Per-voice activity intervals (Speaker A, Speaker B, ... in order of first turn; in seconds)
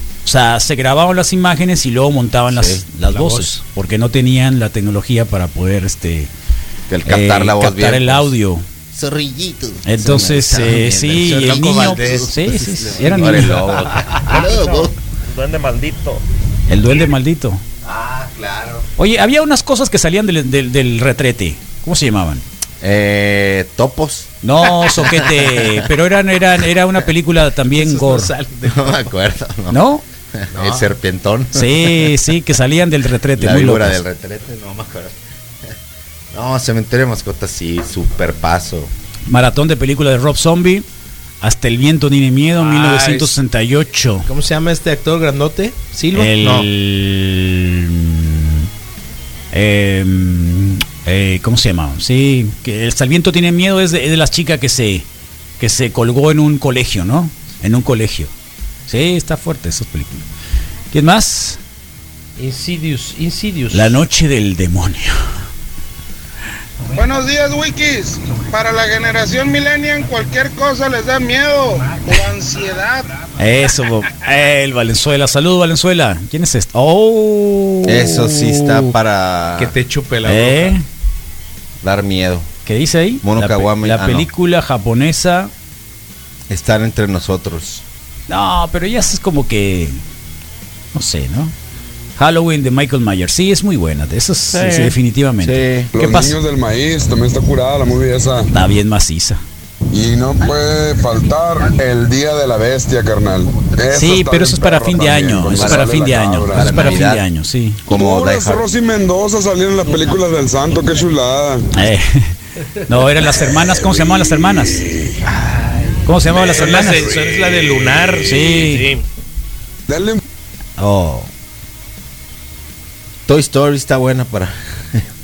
Speaker A: 0.2-6.3, 7.1-8.7, 9.8-13.8, 16.7-17.6, 19.0-22.4, 24.4-28.3, 29.7-30.0, 31.5-34.0, 39.3-40.9, 41.4-44.3, 46.1-48.7, 49.5-55.1, 55.6-58.3, 58.9-60.2, 60.9-61.6, 63.7-65.2, 73.4-79.0, 80.2-80.8, 82.7-85.5, 88.3-90.0, 90.9-91.5, 92.2-96.3, 98.5-99.4, 103.9-107.8, 111.7-112.3, 112.9-114.9, 116.0-117.1, 118.2-118.9, 120.8-121.3
Speaker B: 2.5-2.8, 6.9-8.3, 8.9-14.9, 17.8-18.9, 22.8-25.9, 28.6-29.8, 30.4-32.1, 33.4-35.7, 36.3-38.9, 77.9-79.7, 81.8-82.5, 83.2-84.3, 86.5-87.8, 95.4-95.9, 105.4-105.9, 106.5-107.2, 107.9-108.7, 123.3-125.0
Speaker C: 3.1-3.5, 11.3-12.2, 27.7-29.1, 30.5-30.9, 42.6-43.3, 44.3-46.7, 62.4-64.0, 79.6-80.8, 115.3-119.0
Speaker D: 67.0-67.3, 68.5-72.1
Speaker E: 95.9-98.5, 99.9-107.0, 107.9-111.7, 119.9-120.2